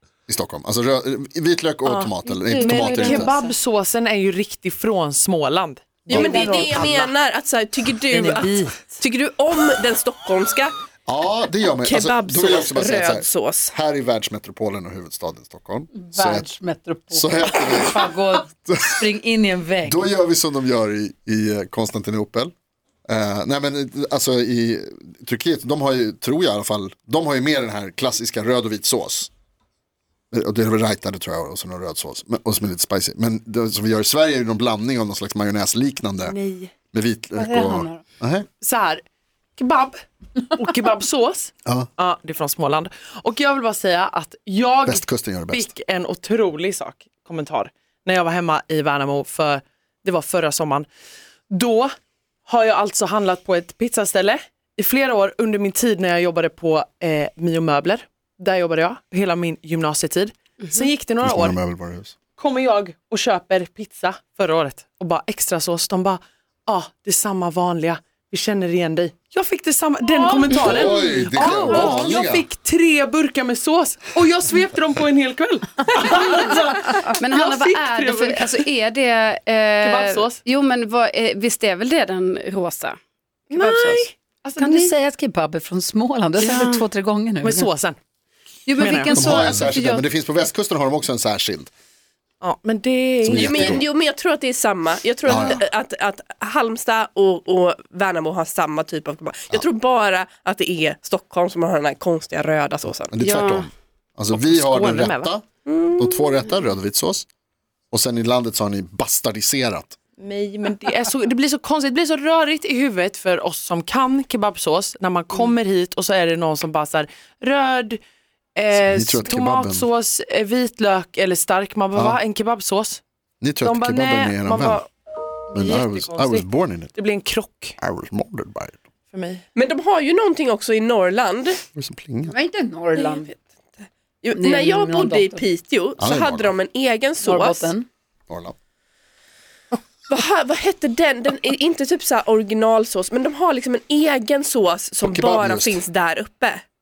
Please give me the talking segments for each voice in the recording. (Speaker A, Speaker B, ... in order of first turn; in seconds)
Speaker A: 0.3-3.3, 11.1-16.5, 17.1-18.1, 18.7-19.0, 19.8-22.5, 23.1-29.3, 30.3-36.4, 36.9-38.5, 44.9-45.7, 61.2-62.1, 70.6-72.5, 89.1-91.7, 93.2-93.8, 95.2-95.7, 103.1-105.5, 106.0-107.2, 107.9-110.0, 118.8-119.9, 123.4-124.8, 125.5-126.9, 127.8-128.8, 131.8-132.3, 136.0-136.6, 138.3-138.5, 145.0-145.8
Speaker B: 1.9-7.1, 8.1-8.9, 36.2-36.7, 38.6-39.0, 39.6-50.9, 51.5-51.9, 52.5-61.6, 62.4-78.7, 79.8-80.4, 83.5-84.9, 87.4-88.0, 88.8-89.2, 92.4-93.8, 104.3-105.3, 110.2-118.0, 118.6-123.0, 123.6-124.9, 125.5-127.8, 129.1-129.4
Speaker C: 2.2-3.6, 6.1-7.0, 15.9-20.1, 37.4-38.0, 84.6-87.7, 88.7-89.9, 132.3-133.4, 134.4-135.4, 137.2-137.9
Speaker D: 6.1-10.7, 11.7-13.7, 93.3-103.1, 105.7-106.3, 129.6-131.6, 133.0-133.2, 134.2-137.7, 140.1-146.6
Speaker E: 70.1-72.2, 77.2-83.0, 83.5-84.1, 86.4-86.8, 88.7-90.0, 103.2-103.7